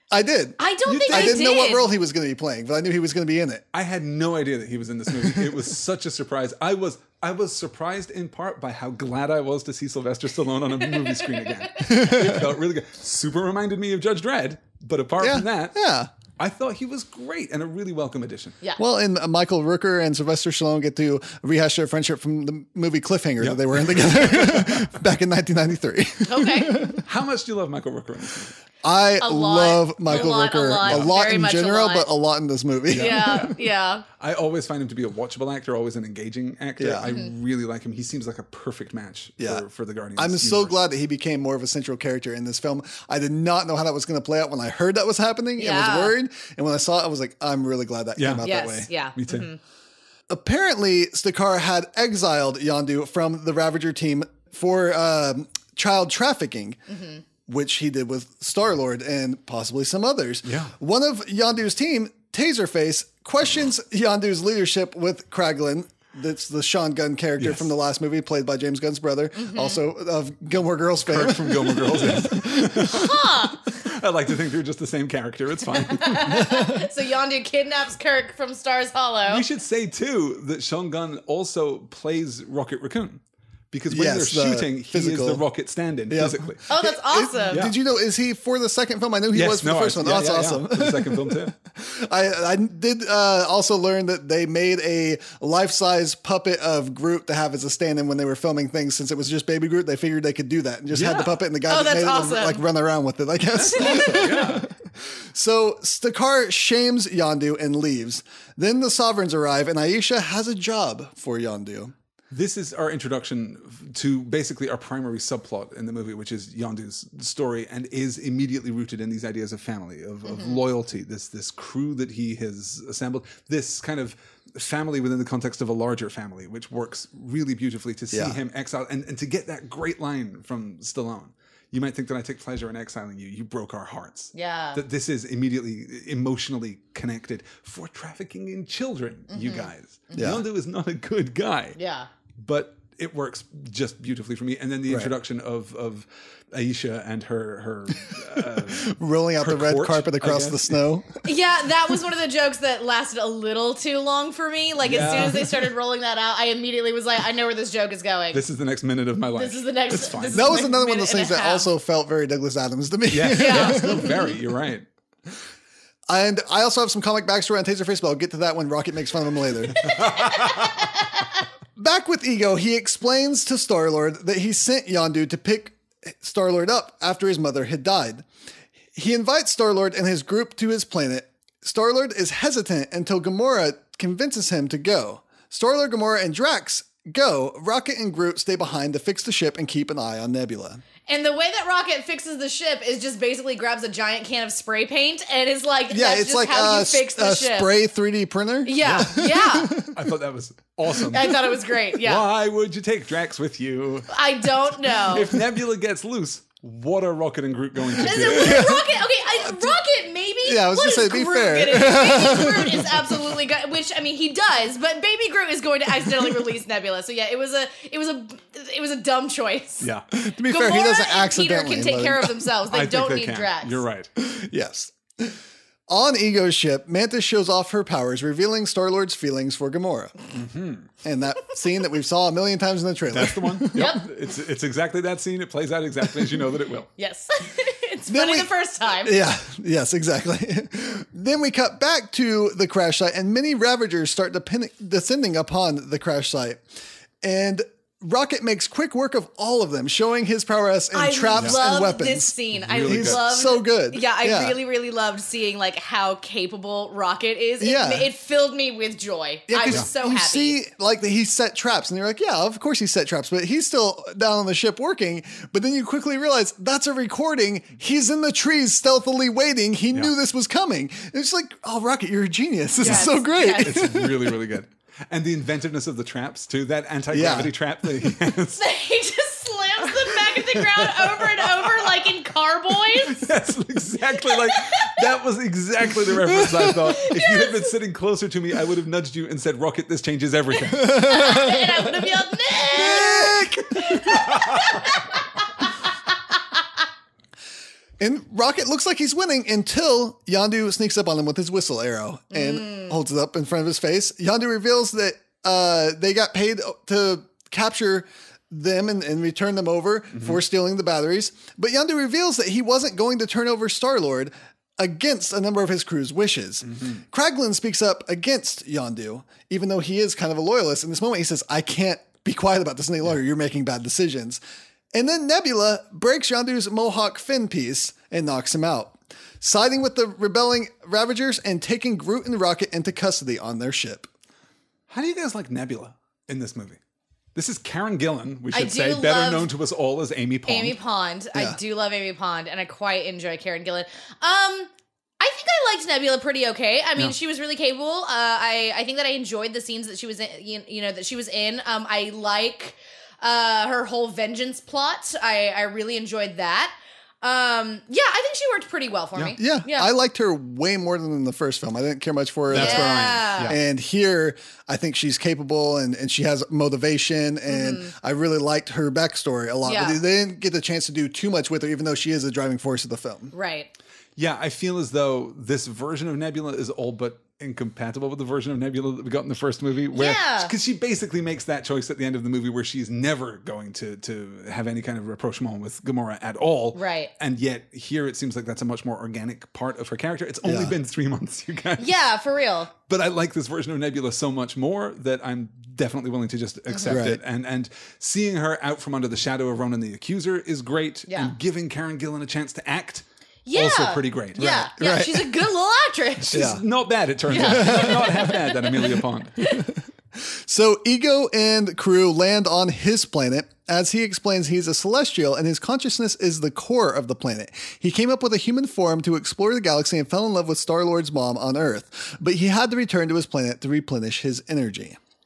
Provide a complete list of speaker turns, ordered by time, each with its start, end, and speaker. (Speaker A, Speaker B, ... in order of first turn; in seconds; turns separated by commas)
Speaker A: 0.1-3.6, Speaker B: 0.6-1.9, Speaker C: 0.9-1.7, Speaker C: 3.7-15.8, Speaker B: 10.8-12.0, Speaker A: 11.8-12.5, Speaker A: 15.2-16.1, Speaker C: 16.4-18.6, Speaker A: 18.8-27.0, Speaker C: 23.4-24.9, Speaker B: 26.2-27.0, Speaker C: 27.0-28.6, Speaker A: 28.8-33.4, Speaker B: 29.2-32.1, Speaker C: 30.8-31.1, Speaker C: 32.9-33.6, Speaker B: 32.9-34.0, Speaker C: 34.2-40.8, Speaker A: 36.8-37.1, Speaker B: 37.0-37.3, Speaker A: 39.4-39.6, Speaker A: 40.2-48.9, Speaker B: 45.6-46.1, Speaker C: 48.2-48.5, Speaker B: 48.4-49.6, Speaker C: 49.1-49.5, Speaker A: 50.3-56.8, Speaker B: 56.9-57.2, Speaker A: 57.5-72.9, Speaker C: 60.5-60.7, Speaker C: 67.4-67.7, Speaker B: 69.3-69.8, Speaker C: 71.0-76.5, Speaker B: 72.8-73.8, Speaker B: 75.8-79.4, Speaker A: 76.4-76.7, Speaker C: 79.3-86.6, Speaker A: 83.9-85.4, Speaker A: 86.1-111.9, Speaker B: 86.7-87.6, Speaker C: 89.3-91.5, Speaker C: 100.9-101.4, Speaker B: 101.7-102.6, Speaker C: 103.5-104.7, Speaker B: 103.8-104.2, Speaker C: 112.3-141.8, Speaker B: 120.3-120.6, Speaker A: 128.1-128.4, Speaker B: 134.3-134.8, Speaker B: 139.3-140.3, Speaker A: 140.2-140.4, Speaker B: 141.8-142.1, Speaker C: 142.4-150.8, Speaker A: 144.9-145.1, Speaker A: 148.5-151.2, Speaker B: 151.2-158.4, Speaker C: 154.8-155.5, Speaker C: 158.3-160.6, Speaker B: 159.3-161.7, Speaker A: 160.3-164.2, Speaker C: 163.1-164.9, Speaker B: 163.3-164.3, Speaker A: 166.1-170.1, Speaker C: 169.8-170.7, Speaker B: 169.9-171.0, Speaker A: 171.8-178.2, Speaker A: 178.9-190.8, Speaker B: 191.1-197.7, Speaker A: 195.9-199.9, Speaker B: 198.6-199.8, Speaker C: 198.8-199.2, Speaker C: 199.8-208.7, Speaker B: 201.1-202.2, Speaker B: 204.1-205.3, Speaker B: 208.0-219.9, Speaker A: 208.2-208.9, Speaker A: 210.4-213.0, Speaker A: 220.1-222.3, Speaker B: 220.5-223.8, Speaker C: 222.7-224.1, Speaker A: 224.2-225.4, Speaker A: 225.9-230.1, Speaker C: 230.3-230.9, Speaker A: 231.0-234.0, Speaker C: 233.1-236.9, Speaker B: 233.7-234.0, Speaker B: 237.0-239.2, Speaker A: 238.1-246.6, Speaker A: 247.2-254.6, Speaker B: 250.9-260.6, Speaker C: 252.6-253.2, Speaker A: 257.6-258.1, Speaker A: 259.5-274.3, Speaker B: 272.8-273.8, Speaker C: 273.6-278.7, Speaker A: 277.1-277.5, Speaker B: 278.6-283.3, Speaker C: 279.9-281.9, Speaker C: 282.9-291.4, Speaker B: 284.3-285.0, Speaker A: 286.3-286.9, Speaker B: 286.9-287.7, Speaker B: 290.7-295.7, Speaker A: 291.2-291.6, Speaker A: 292.7-294.4, Speaker A: 298.0-324.4, Speaker B: 302.3-302.9, Speaker C: 310.1-310.4, Speaker C: 316.7-317.0, Speaker A: 324.9-334.1, Speaker C: 334.9-336.8, Speaker C: 337.3-340.8, Speaker B: 338.5-339.5, Speaker B: 340.5-359.9, Speaker A: 359.3-373.3, Speaker C: 362.5-363.6, Speaker B: 362.5-363.6, Speaker B: 367.5-367.9, Speaker B: 369.6-370.0, Speaker B: 373.3-373.7, Speaker C: 374.2-391.9, Speaker B: 379.9-380.5, Speaker B: 386.7-387.1, Speaker A: 390.4-390.7, Speaker B: 391.8-392.7, Speaker C: 392.9-404.7, Speaker B: 396.7-397.0, Speaker A: 396.9-397.2, Speaker B: 401.1-401.3, Speaker B: 403.4-406.3, Speaker A: 404.4-405.3, Speaker C: 406.2-409.4, Speaker A: 406.3-406.6, Speaker B: 407.3-409.6, Speaker A: 407.3-408.2, Speaker A: 409.5-425.0